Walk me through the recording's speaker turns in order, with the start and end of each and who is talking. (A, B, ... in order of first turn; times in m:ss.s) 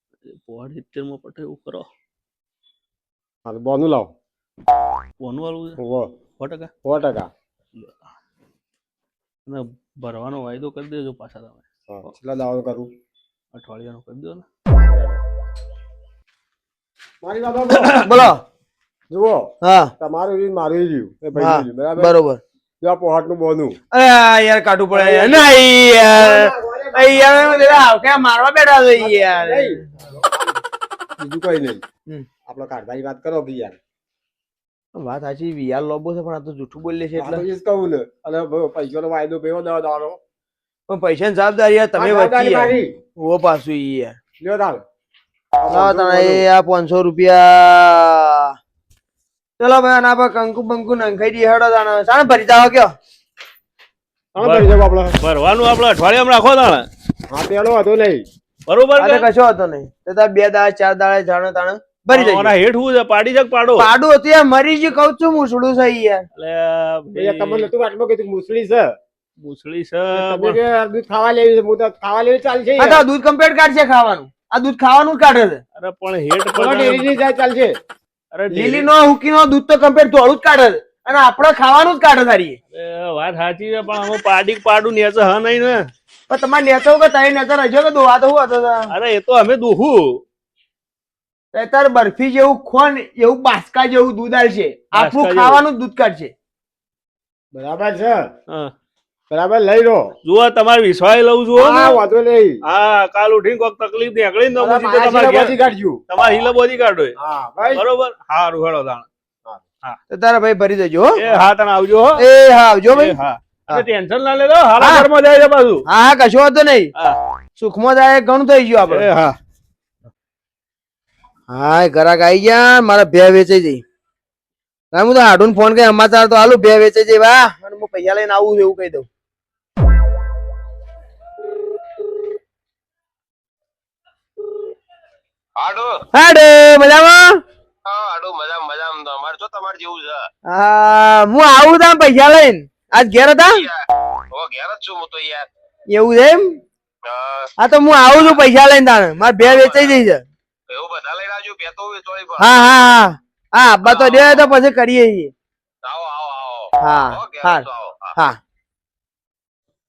0:00.3-0:01.9 A
0:03.4-0:04.1 B
0:05.2-0:05.8 A
0:05.8-0:06.1 B
0:06.4-0:06.7 A
0:06.8-0:07.3 B
0:09.4-0:11.6 A
0:11.9-0:12.9 B
0:13.5-0:14.4 A
0:14.7-0:15.2 B
0:17.2-0:18.0 B
0:18.0-0:18.4 C
0:19.1-0:22.1 B
0:19.6-0:19.9 C
0:21.4-0:22.4 C
0:22.8-0:23.8 B
0:23.9-0:29.9 C
0:24.9-0:25.5 B
0:26.1-0:27.9 B
0:29.0-0:30.6 B
0:31.2-0:31.8 B
0:32.5-0:33.8 B
0:35.0-0:37.4 C
0:37.2-0:40.2 B
0:40.9-0:44.1 C
0:42.0-0:43.0 B
0:44.4-0:44.8 B
0:45.6-0:46.4 B
0:45.7-0:48.5 C
0:49.6-0:52.9 C
0:54.3-0:55.2 B
0:54.4-0:54.7 A
0:55.2-0:56.9 A
0:57.3-0:58.2 B
0:58.7-0:59.3 A
0:59.0-1:02.5 C
1:02.1-1:03.8 A
1:03.8-1:06.2 C
1:06.4-1:07.7 A
1:07.1-1:08.9 B
1:09.4-1:10.6 A
1:10.1-1:13.0 B
1:12.8-1:15.6 C
1:15.8-1:17.1 A
1:16.5-1:17.8 B
1:18.3-1:18.9 A
1:18.5-1:22.6 C
1:22.7-1:25.9 A
1:26.3-1:28.9 C
1:28.9-1:30.2 A
1:31.5-1:36.3 C
1:34.9-1:35.6 A
1:37.5-1:38.3 B
1:39.3-1:40.1 B
1:40.2-1:42.0 A
1:41.5-1:42.6 B
1:42.6-1:45.5 A
1:44.6-1:46.0 B
1:46.1-1:47.1 A
1:47.2-1:47.8 B
1:47.7-1:49.0 A
1:50.1-1:51.2 C
1:51.2-1:52.2 A
1:52.2-1:53.2 C
1:52.9-1:55.8 A
1:54.8-1:55.1 C
1:55.9-1:56.9 C
1:57.6-1:59.1 C
1:58.9-1:59.3 A
2:01.5-2:03.8 C
2:04.9-2:09.1 C
2:15.6-2:15.9 D
2:16.1-2:17.4 C
2:17.8-2:20.2 D
2:20.5-2:23.6 C
2:24.3-2:25.5 D
2:25.9-2:26.6 C
2:27.1-2:27.5 D
2:27.6-2:30.2 C
2:29.4-2:30.0 D
2:30.7-2:32.5 D
2:32.4-2:35.3 C
2:33.8-2:34.5 D
2:35.8-2:38.1 D
2:36.8-2:38.4 C